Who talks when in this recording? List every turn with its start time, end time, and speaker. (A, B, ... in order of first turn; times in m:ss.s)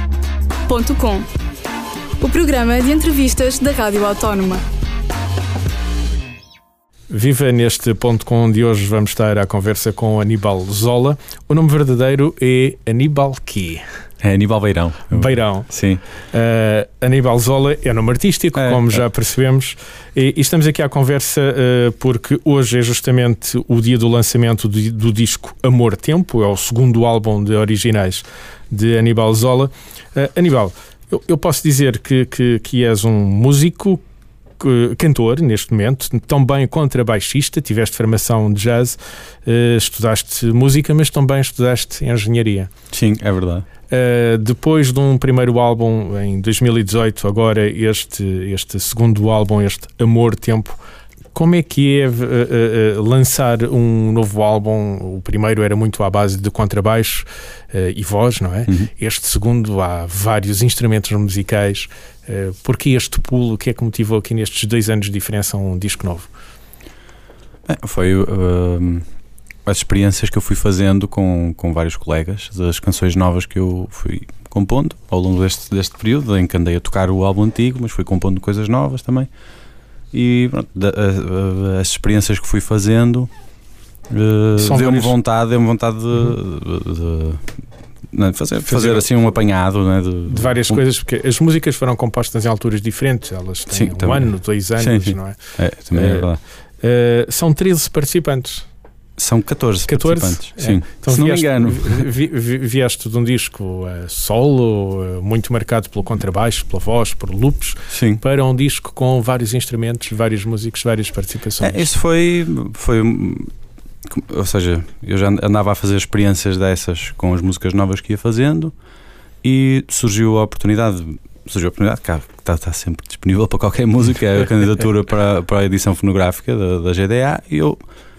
0:00.7-0:01.3 A
0:02.2-0:04.6 A
0:07.1-0:13.8 B
0:14.2-0:16.0 C
0:15.1-0:15.7 B
0:16.3-0:34.0 B
0:18.5-0:19.0 C
0:34.6-0:42.7 B
0:42.9-0:43.6 C
0:43.9-0:50.8 B
0:51.3-1:06.3 B
1:07.6-1:09.0 C
1:09.6-1:19.3 C
1:20.1-1:23.3 C
1:24.1-1:27.6 C
1:24.6-1:25.1 B
1:28.1-1:30.8 C
1:28.6-1:29.0 B
1:30.3-1:38.7 B
1:33.7-1:36.4 C
1:39.2-1:42.1 C
1:39.9-1:51.9 B
1:47.9-1:48.2 C
1:51.6-1:53.5 C
1:54.0-1:58.7 C
1:59.4-2:07.8 C